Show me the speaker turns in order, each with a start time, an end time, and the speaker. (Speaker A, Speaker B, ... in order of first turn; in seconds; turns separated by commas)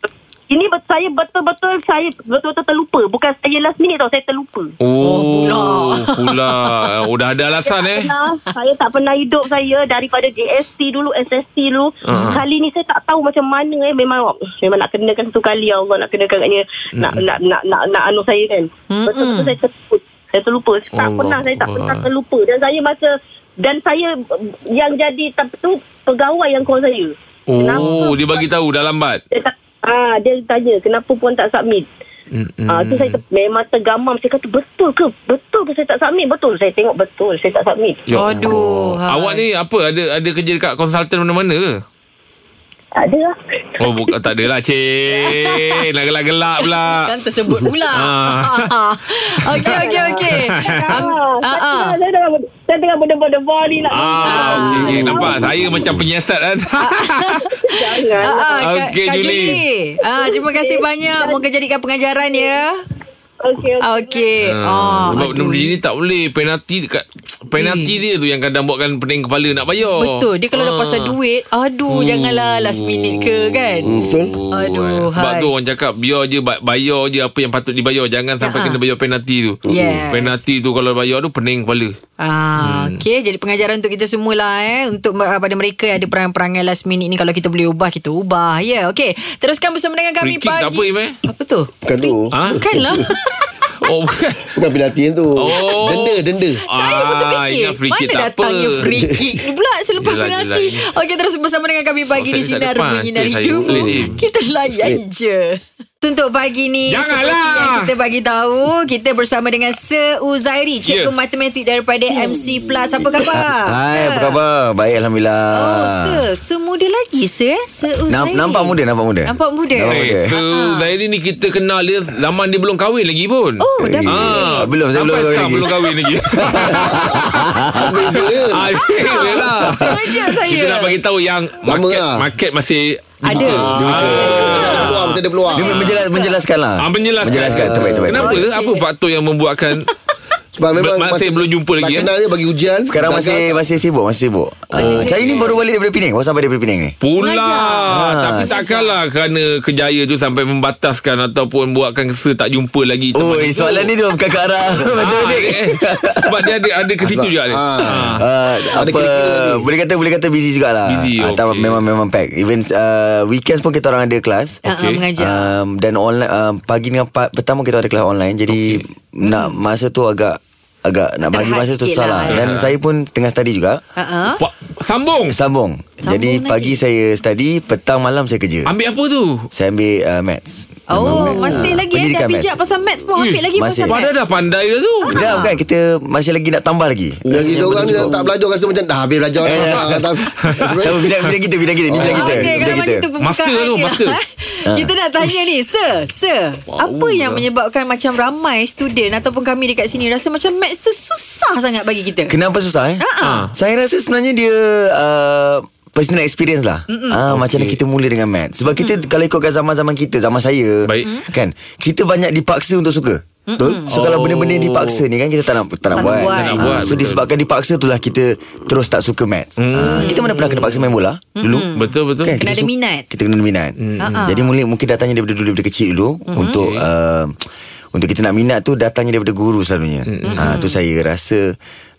Speaker A: 0.5-4.7, Speaker B: 4.8-8.1, Speaker C: 5.0-6.8, Speaker A: 7.6-23.1, Speaker B: 12.1-12.4, Speaker C: 12.1-12.4, Speaker B: 16.9-17.2, Speaker C: 18.9-19.6, Speaker B: 20.9-22.1, Speaker A: 23.6-28.5, Speaker B: 27.5-29.2, Speaker A: 29.3-31.9, Speaker B: 32.3-33.2, Speaker A: 32.7-38.0, Speaker B: 38.1-41.7, Speaker C: 38.1-39.4, Speaker A: 43.0-44.1, Speaker B: 43.8-47.0, Speaker C: 45.1-45.8, Speaker C: 46.7-52.0, Speaker B: 48.0-48.7, Speaker B: 49.5-49.8, Speaker A: 49.6-54.9, Speaker B: 50.5-51.0, Speaker B: 53.9-57.4, Speaker C: 54.2-55.5, Speaker D: 55.1-55.8, Speaker C: 56.8-57.5, Speaker A: 57.5-58.7, Speaker C: 58.2-62.8, Speaker B: 58.6-59.6, Speaker A: 60.0-61.4, Speaker A: 63.4-64.3, Speaker C: 63.8-65.7, Speaker B: 64.5-71.1, Speaker C: 67.6-67.9, Speaker C: 69.9-73.9, Speaker B: 71.9-81.9, Speaker D: 73.8-74.3, Speaker C: 74.5-75.5, Speaker C: 78.4-78.8, Speaker C: 79.7-80.4, Speaker D: 79.7-80.0, Speaker C: 82.2-93.5, Speaker B: 82.6-83.0, Speaker B: 90.2-91.1, Speaker D: 91.8-93.0, Speaker B: 92.3-92.7, Speaker B: 93.8-94.5, Speaker D: 94.4-96.6, Speaker B: 95.4-96.2, Speaker C: 96.7-114.4, Speaker B: 96.7-98.7, Speaker D: 99.0-99.2, Speaker B: 100.0-100.8, Speaker B: 102.1-104.2, Speaker D: 103.6-104.1, Speaker D: 104.7-105.0, Speaker B: 106.9-107.9, Speaker B: 110.8-111.1, Speaker E: 113.3-116.2, Speaker C: 115.5-120.9, Speaker E: 118.1-120.3, Speaker B: 119.9-136.1, Speaker C: 123.6-124.7, Speaker E: 123.8-125.8, Speaker E: 126.4-128.2, Speaker D: 127.7-128.7, Speaker C: 128.8-131.0, Speaker E: 129.2-129.8, Speaker D: 131.6-132.2, Speaker C: 133.2-135.0, Speaker E: 133.3-134.3, Speaker D: 133.4-135.8, Speaker E: 135.5-138.4, Speaker C: 135.8-136.4, Speaker B: 136.8-139.9, Speaker D: 137.2-138.4, Speaker C: 138.2-138.8, Speaker D: 140.5-143.6, Speaker B: 140.8-142.1, Speaker E: 142.8-146.9, Speaker C: 144.7-145.5, Speaker B: 144.7-145.5, Speaker B: 147.0-153.9, Speaker C: 147.2-148.9, Speaker E: 147.9-148.6, Speaker E: 153.2-157.3, Speaker B: 154.8-158.2, Speaker D: 157.5-158.2, Speaker E: 157.8-164.6, Speaker D: 158.7-159.7, Speaker B: 160.9-161.8, Speaker C: 164.6-165.5, Speaker B: 164.7-165.0, Speaker E: 165.2-173.8, Speaker B: 168.5-168.8, Speaker C: 169.2-169.6, Speaker C: 171.3-172.5, Speaker B: 172.3-172.7, Speaker C: 173.9-174.4, Speaker B: 174.4-175.3, Speaker E: 175.3-178.7, Speaker C: 176.0-176.8, Speaker B: 178.7-179.5, Speaker E: 179.5-182.5, Speaker C: 180.9-184.2, Speaker B: 181.1-181.7, Speaker B: 183.2-185.2, Speaker E: 183.5-184.1, Speaker C: 185.0-185.6, Speaker E: 185.1-188.2, Speaker D: 187.3-191.0, Speaker B: 187.3-188.1, Speaker E: 189.4-193.1, Speaker B: 189.5-189.8, Speaker B: 190.4-191.3, Speaker D: 191.9-192.6, Speaker B: 192.0-192.3, Speaker C: 192.1-202.3, Speaker B: 193.2-194.2, Speaker E: 194.7-194.9, Speaker B: 196.7-197.4, Speaker E: 202.3-213.2, Speaker C: 203.0-203.4, Speaker B: 203.2-203.5, Speaker C: 206.9-207.2, Speaker B: 207.3-207.8, Speaker C: 208.7-209.1, Speaker B: 210.8-211.1, Speaker C: 213.5-213.9, Speaker B: 213.9-215.0, Speaker E: 213.9-221.7, Speaker C: 215.9-216.9, Speaker B: 215.9-217.3, Speaker B: 219.6-220.9, Speaker C: 219.9-220.2, Speaker C: 221.3-223.1, Speaker B: 221.8-222.4, Speaker E: 222.2-227.4, Speaker B: 223.8-224.3, Speaker C: 224.0-224.5, Speaker B: 226.3-226.9, Speaker E: 227.9-231.6, Speaker B: 230.1-230.5, Speaker C: 230.2-230.8